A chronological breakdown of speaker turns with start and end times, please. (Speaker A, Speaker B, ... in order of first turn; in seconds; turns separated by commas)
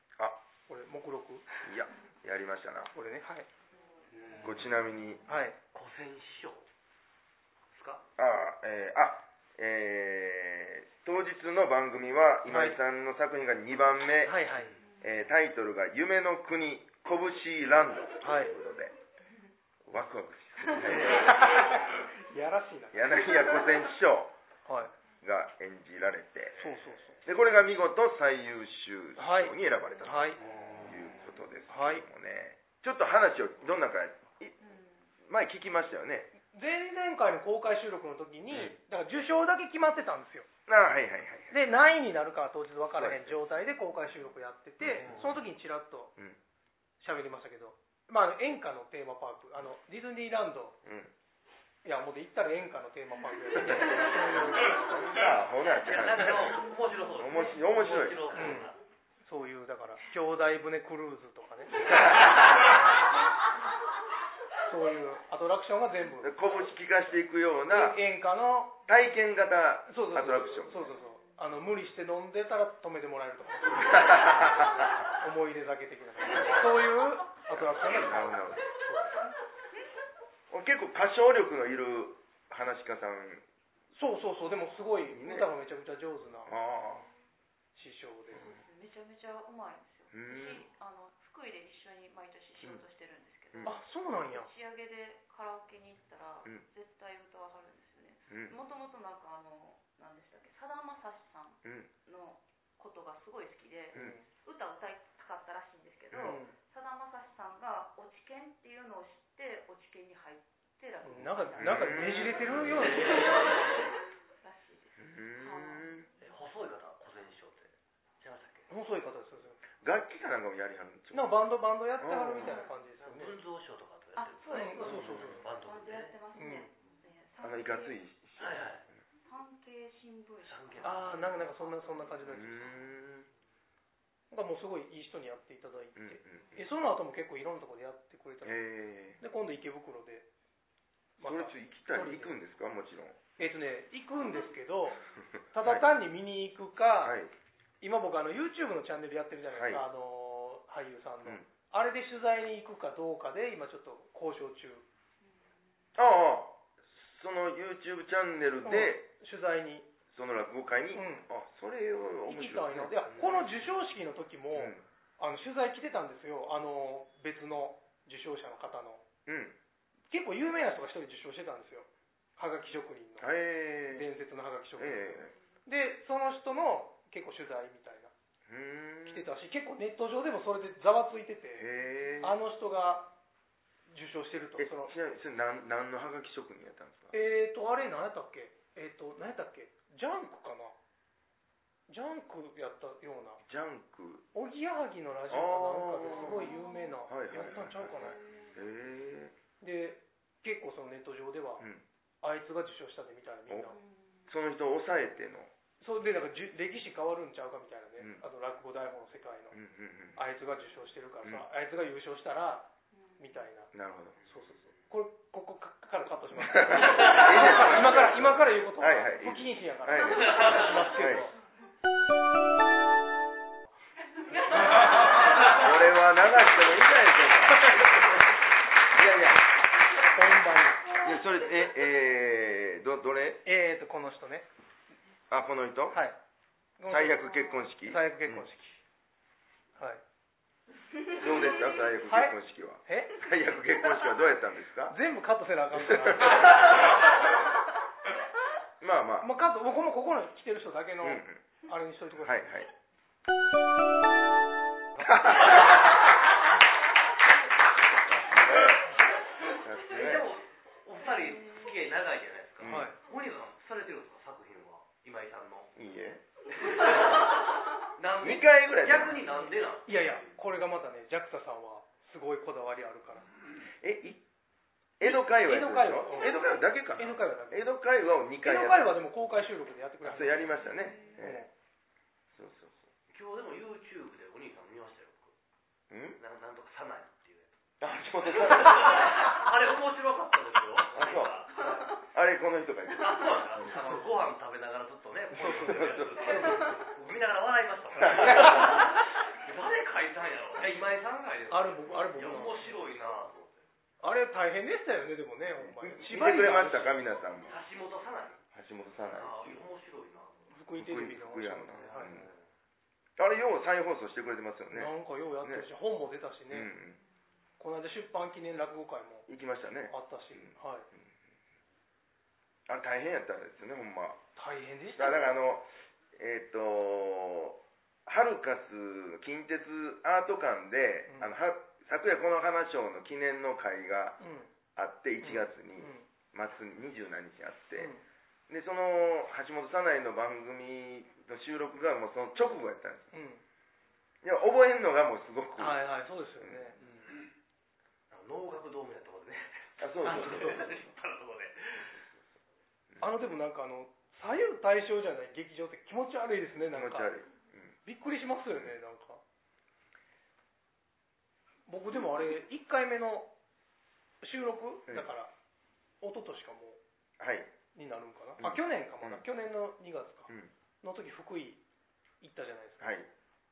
Speaker A: 0.7-1.4, Speaker B: 1.6-2.9, Speaker A: 2.9-3.5, Speaker C: 4.2-4.5, Speaker B: 4.4-5.2, Speaker A: 5.3-5.5, Speaker C: 5.7-6.6, Speaker C: 7.7-8.0, Speaker B: 8.2-14.4, Speaker A: 12.5-12.8, Speaker A: 14.2-14.7, Speaker B: 15.0-18.9, Speaker A: 18.2-18.5, Speaker B: 19.9-21.4, Speaker A: 21.0-23.4, Speaker B: 22.9-24.3, Speaker A: 24.6-24.9, Speaker B: 25.2-34.5, Speaker A: 26.6-27.2, Speaker A: 29.2-30.4, Speaker A: 31.7-32.0, Speaker D: 34.6-34.9, Speaker B: 35.2-36.3, Speaker A: 36.3-40.5, Speaker B: 38.5-38.8, Speaker B: 40.7-41.5, Speaker A: 41.5-46.1, Speaker B: 43.0-43.4, Speaker B: 44.8-45.4, Speaker A: 47.0-50.8, Speaker B: 50.8-51.1, Speaker A: 51.8-54.8, Speaker B: 53.5-56.6, Speaker C: 55.7-58.8, Speaker B: 57.2-58.6, Speaker A: 58.3-58.7, Speaker A: 59.2-62.0, Speaker A: 64.7-66.3, Speaker B: 66.2-68.0, Speaker A: 67.7-68.8, Speaker B: 68.8-70.8, Speaker A: 69.9-79.2, Speaker B: 73.9-74.7, Speaker B: 77.5-78.6, Speaker B: 80.5-83.4, Speaker A: 83.9-86.5, Speaker B: 85.1-85.5, Speaker B: 86.5-87.0, Speaker A: 87.7-88.5, Speaker D: 88.4-113.8, Speaker B: 90.1-90.7, Speaker A: 93.6-94.5, Speaker B: 98.3-98.5, Speaker B: 101.6-101.9, Speaker A: 103.9-104.2, Speaker B: 106.1-106.4, Speaker A: 106.2-106.5, Speaker A: 111.0-113.6, Speaker B: 111.6-112.8, Speaker C: 112.7-113.7, Speaker D: 114.4-115.9, Speaker B: 115.0-116.1, Speaker C: 116.2-118.7, Speaker A: 118.7-119.6, Speaker B: 119.8-121.4, Speaker A: 121.1-123.3, Speaker B: 122.0-122.6, Speaker D: 122.4-122.7, Speaker C: 123.0-126.2, Speaker D: 124.2-128.0, Speaker A: 124.5-125.4, Speaker B: 124.8-125.4, Speaker A: 126.3-126.7, Speaker B: 127.4-128.7, Speaker C: 128.4-128.8, Speaker D: 129.2-132.1, Speaker C: 130.4-131.2, Speaker A: 130.8-132.8, Speaker B: 132.3-133.3, Speaker A: 134.3-138.6, Speaker B: 135.9-136.6, Speaker B: 138.4-139.2, Speaker A: 139.2-140.3, Speaker A: 141.2-142.4, Speaker B: 141.2-143.2, Speaker A: 143.4-145.0, Speaker A: 145.5-147.2, Speaker B: 145.6-145.8, Speaker B: 147.0-147.3, Speaker A: 147.8-154.8, Speaker B: 149.5-149.8, Speaker B: 155.9-159.0, Speaker A: 158.6-159.9, Speaker B: 160.1-163.4, Speaker A: 160.9-161.3, Speaker A: 162.2-169.0, Speaker B: 164.5-164.8, Speaker B: 169.2-169.6, Speaker A: 170.1-173.3, Speaker B: 173.2-174.1, Speaker A: 173.9-178.1, Speaker B: 174.8-175.3, Speaker B: 178.5-179.3, Speaker A: 179.1-181.7, Speaker B: 181.6-182.3, Speaker A: 182.2-183.1, Speaker A: 183.9-184.9, Speaker B: 184.6-187.1, Speaker A: 187.1-190.7, Speaker A: 191.9-193.4, Speaker B: 193.4-194.2, Speaker A: 194.3-198.2, Speaker B: 195.3-196.5, Speaker D: 196.2-196.9, Speaker B: 197.1-199.3, Speaker D: 198.1-198.6, Speaker A: 199.6-201.7, Speaker A: 202.2-203.8, Speaker D: 203.7-204.3, Speaker B: 204.3-205.5, Speaker A: 205.8-209.6, Speaker B: 208.0-208.2, Speaker B: 209.5-210.2, Speaker A: 210.2-212.7, Speaker D: 212.9-213.3, Speaker A: 213.2-213.7, Speaker B: 213.7-214.2, Speaker A: 214.2-221.3, Speaker B: 216.3-221.3, Speaker A: 224.4-225.0, Speaker D: 224.4-225.6, Speaker B: 225.4-228.1, Speaker B: 228.9-229.4, Speaker A: 230.1-231.0, Speaker B: 231.0-233.4, Speaker A: 233.4-234.5, Speaker B: 235.3-236.0, Speaker A: 235.9-236.2, Speaker A: 236.8-238.8, Speaker B: 236.9-238.5, Speaker D: 237.2-237.6, Speaker B: 241.1-244.9, Speaker A: 242.1-243.2, Speaker A: 244.9-246.9, Speaker B: 245.7-246.9, Speaker B: 248.8-249.3, Speaker A: 249.2-252.6, Speaker B: 251.0-251.4, Speaker B: 252.2-252.7, Speaker B: 255.0-255.7, Speaker C: 255.2-255.6, Speaker B: 258.3-258.8, Speaker B: 259.5-260.3, Speaker C: 259.8-265.7, Speaker B: 262.6-262.9, Speaker A: 262.6-263.0, Speaker B: 265.8-266.2, Speaker C: 266.5-270.4, Speaker B: 268.2-269.3, Speaker A: 269.9-273.3, Speaker B: 273.8-274.2, Speaker B: 275.0-278.9, Speaker A: 275.0-276.4, Speaker A: 276.9-277.7, Speaker A: 278.4-280.6, Speaker B: 280.0-281.4, Speaker D: 280.7-281.1, Speaker A: 281.2-281.5, Speaker B: 282.3-282.9, Speaker C: 283.1-285.3, Speaker B: 285.9-286.2, Speaker C: 286.2-287.6, Speaker B: 287.8-289.1, Speaker C: 288.3-292.0, Speaker B: 290.9-291.4, Speaker B: 292.0-293.7, Speaker C: 292.9-303.6, Speaker A: 295.3-296.8, Speaker B: 295.6-296.7, Speaker B: 297.9-298.9, Speaker A: 298.0-298.8, Speaker A: 301.5-302.7, Speaker A: 304.0-307.0, Speaker B: 305.6-307.6, Speaker C: 307.4-308.4, Speaker B: 308.5-309.6, Speaker C: 309.1-310.5, Speaker A: 310.5-312.2, Speaker B: 310.8-312.3, Speaker C: 311.8-312.4, Speaker B: 313.2-315.7, Speaker A: 314.7-316.7, Speaker B: 316.5-317.0, Speaker A: 317.6-319.3, Speaker B: 319.3-320.5, Speaker A: 319.9-320.9, Speaker B: 322.7-324.2, Speaker A: 324.4-325.3, Speaker B: 324.9-334.2, Speaker A: 331.1-331.3, Speaker A: 334.2-334.5, Speaker B: 334.8-337.9, Speaker A: 335.2-336.1, Speaker A: 337.8-338.0, Speaker B: 338.5-343.1, Speaker A: 343.1-343.4, Speaker B: 344.2-345.8, Speaker A: 345.6-347.2, Speaker C: 348.1-352.0, Speaker B: 349.8-350.9, Speaker A: 350.0-350.7, Speaker B: 352.9-353.2, Speaker A: 353.0-357.1, Speaker B: 356.7-357.7, Speaker A: 357.8-359.2, Speaker A: 361.7-363.3, Speaker A: 364.2-365.3, Speaker A: 366.0-366.8, Speaker B: 367.2-367.5, Speaker A: 367.7-371.6, Speaker B: 368.4-369.2, Speaker A: 372.2-373.0, Speaker B: 372.8-373.1